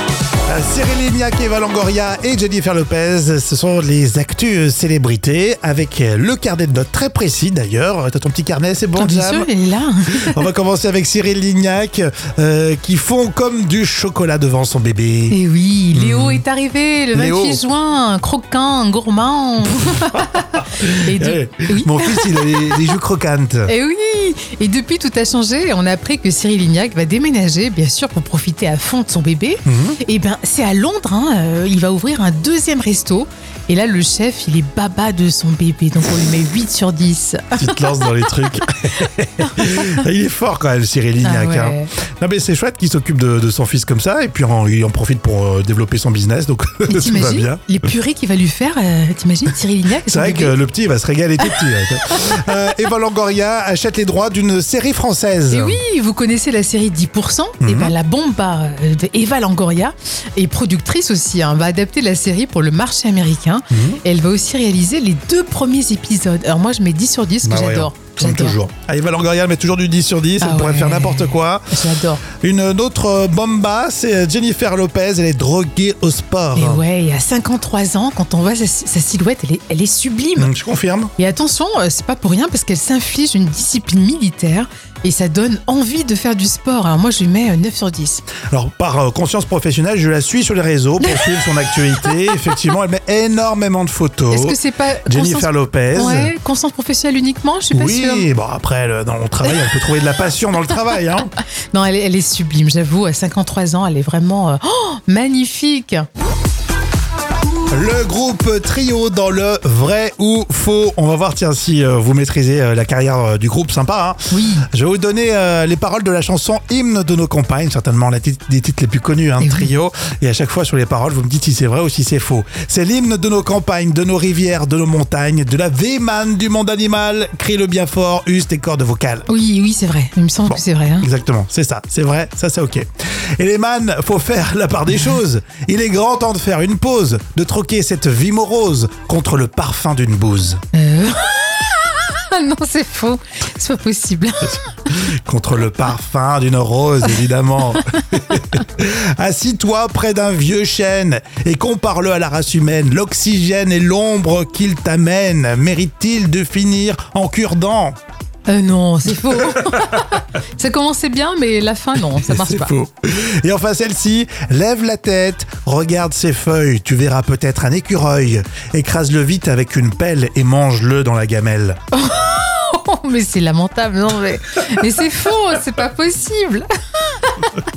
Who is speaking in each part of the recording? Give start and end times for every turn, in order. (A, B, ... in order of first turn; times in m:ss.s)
0:00.5-0:09.5 A
0:09.0-0:10.5 B
0:10.1-0:15.4 A
0:15.3-0:22.8 B
0:15.9-0:16.4 A
0:17.1-0:17.6 A
0:20.2-0:23.7 A
0:23.6-0:38.1 B
0:29.6-0:30.0 A
0:37.6-0:47.6 A
0:39.4-0:40.0 B
0:41.2-0:41.9 B
0:46.9-0:50.5 B
0:50.1-0:55.8 A
0:55.5-1:08.5 B
0:57.6-0:57.9 A
1:03.7-1:04.0 A
1:07.4-1:11.6 A
1:10.4-1:12.2 B
1:12.3-1:16.8 A
1:16.6-1:20.5 B
1:20.4-1:21.1 A
1:21.2-1:28.2 B
1:28.5-1:36.3 A
1:31.0-1:32.2 B
1:34.3-1:38.3 B
1:37.7-1:41.3 A
1:41.7-1:46.1 B
1:47.7-1:54.2 A
1:54.3-1:54.6 B
1:54.7-2:09.3 A
1:59.4-1:59.7 B
2:09.3-2:11.1 B
2:10.5-2:12.9 A
2:13.4-2:20.6 A
2:20.7-2:24.8 B
2:24.9-2:38.0 A
2:38.5-2:42.7 B
2:42.2-2:51.8 A
2:51.9-2:57.6 B